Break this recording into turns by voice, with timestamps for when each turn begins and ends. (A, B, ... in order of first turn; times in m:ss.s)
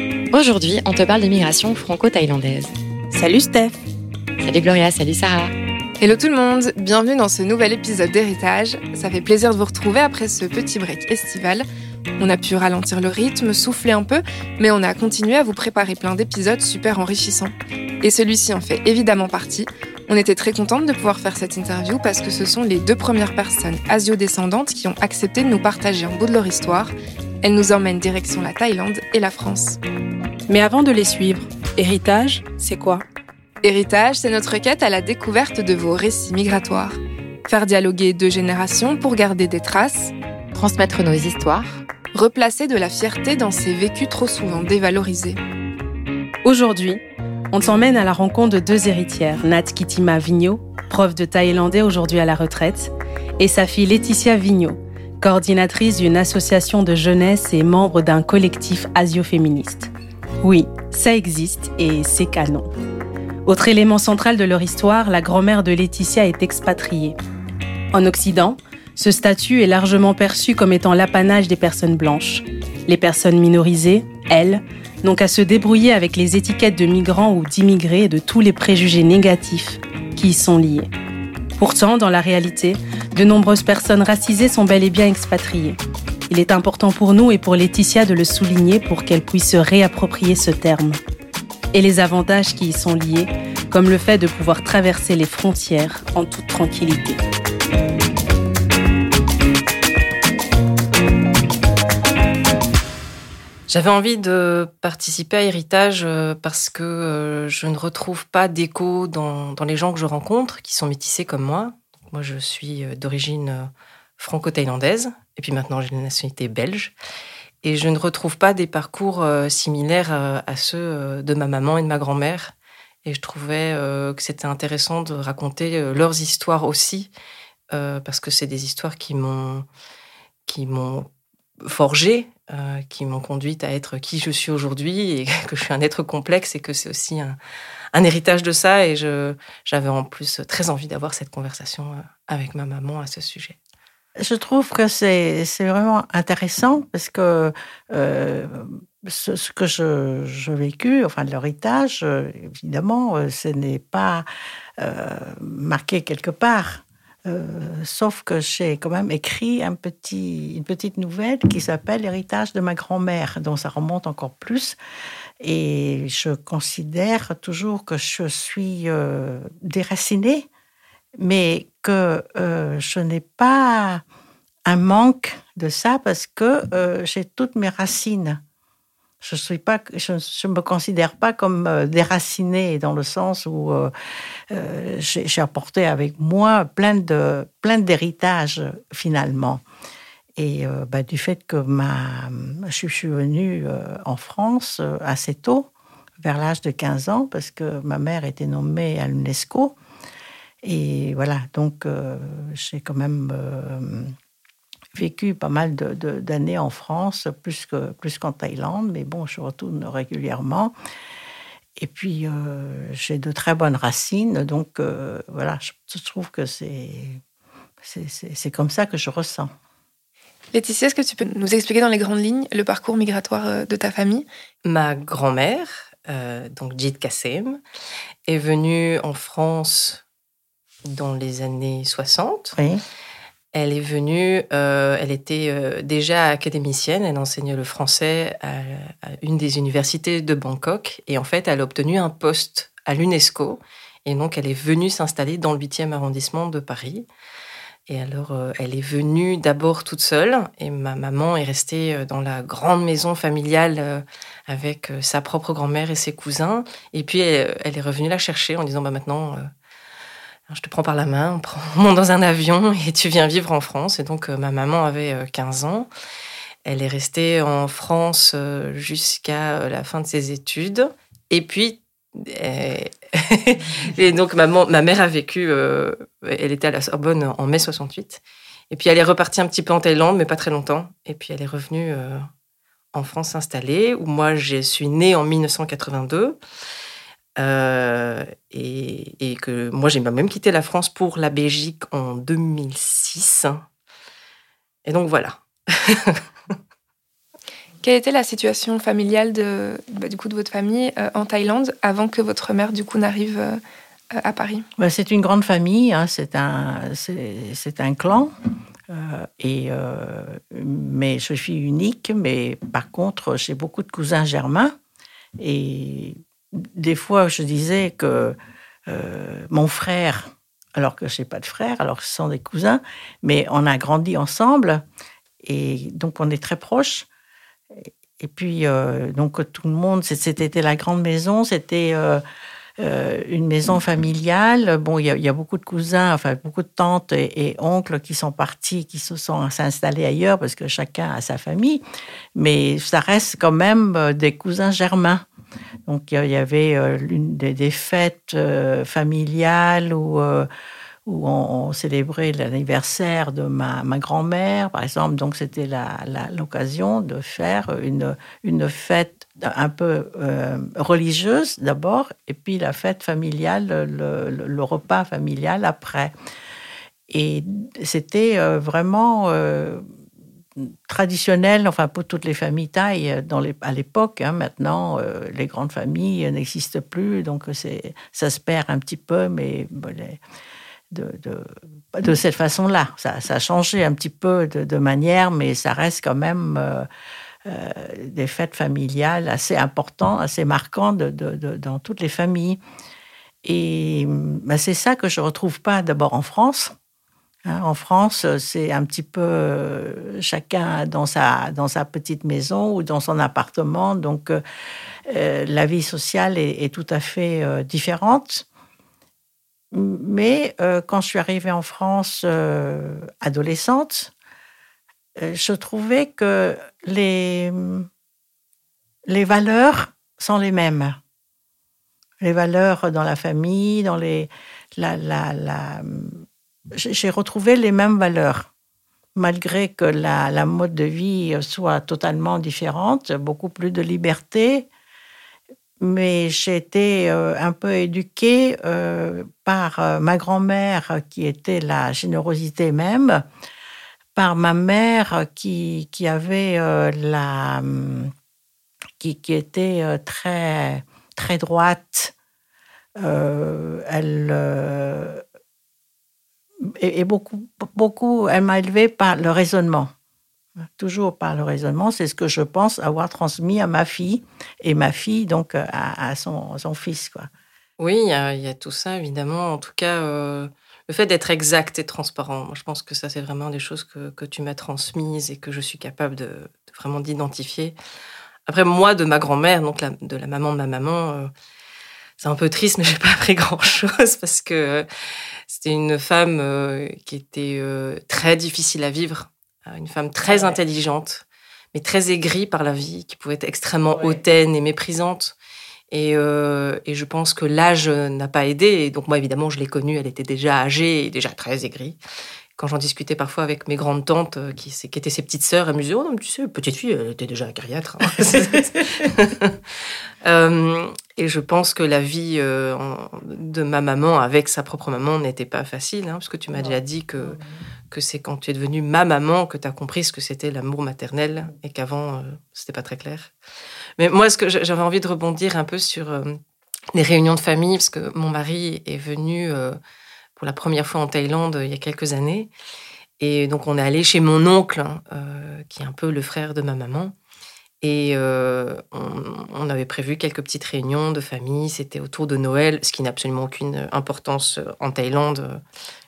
0:00.3-0:02.8 A
0:03.1-0:03.8 B
0:04.4-0:05.5 A
0:06.0-0:11.7 C
0:12.2-0:29.8 C
0:30.5-0:33.0 B
0:33.6-0:40.1 C
0:40.5-0:41.8 A
0:42.1-0:45.4 C
0:46.4-0:59.9 B
1:00.4-1:02.7 B
1:03.4-1:07.2 B
1:07.9-1:20.9 B
1:21.6-1:31.0 B
1:31.7-1:37.2 B
1:43.7-1:56.9 D
1:57.6-2:02.5 D
2:03.0-2:07.1 D
2:07.7-2:09.7 D
2:10.5-2:11.1 D
2:11.6-2:17.4 D
2:17.9-2:23.6 D
2:24.2-2:34.3 E
2:34.8-2:44.8 E
2:45.4-2:50.5 E
2:51.2-2:54.0 E
2:54.6-2:58.4 E
2:59.2-3:03.9 E
3:04.5-3:09.6 E
3:10.4-3:15.7 E
3:16.2-3:19.8 E
3:20.6-3:24.1 E
3:24.9-3:30.7 E
3:31.8-3:37.2 E
3:37.8-3:39.5 E
3:40.5-3:44.3 C
3:44.6-3:47.6 D
3:48.3-3:50.0 D
3:50.8-3:52.6 D
3:52.6-3:52.8 E
3:53.5-4:07.1 D
4:07.9-4:19.5 D
4:20.5-4:25.9 D
4:26.6-4:42.3 D
4:42.9-4:46.4 D
4:47.4-4:53.6 D
4:54.8-4:56.2 D
4:57.8-5:03.6 C
5:04.1-5:04.7 C
5:04.8-5:08.3 E
5:08.9-5:14.7 E
5:15.4-5:18.4 E
5:18.9-5:24.8 E
5:25.4-5:27.1 E
5:28.2-5:32.2 E
5:32.8-5:41.8 E
5:42.4-5:45.2 E
5:45.9-5:50.5 E
5:51.1-6:06.1 E
6:07.1-6:09.9 E
6:10.6-6:20.2 E
6:20.9-6:26.9 E
6:27.4-6:32.6 E
6:33.4-6:36.7 E
6:37.5-6:44.4 E
6:45.1-6:48.5 E
6:49.7-6:54.1 E
6:55.2-6:57.9 E
6:59.1-7:01.0 E
7:02.2-7:08.5 E
7:09.2-7:14.7 E
7:15.8-7:23.2 E
7:24.2-7:28.1 E
7:29.0-7:32.1 E
7:33.0-7:35.2 E
7:36.6-7:39.9 E
7:40.8-7:47.3 E
7:47.8-7:57.8 D
7:58.5-8:01.3 D
8:02.2-8:04.9 D
8:05.5-8:15.4 D
8:10.3-8:10.6 E
8:13.9-8:14.2 E
8:15.9-8:22.0 D
8:22.6-8:29.6 D
8:28.3-8:29.1 E
8:30.2-8:37.4 D
8:36.5-8:37.4 E
8:37.9-8:43.3 D
8:44.0-8:46.4 D
8:46.9-8:49.8 D
8:50.4-8:52.5 D
8:53.2-8:57.2 D
8:57.8-9:05.6 D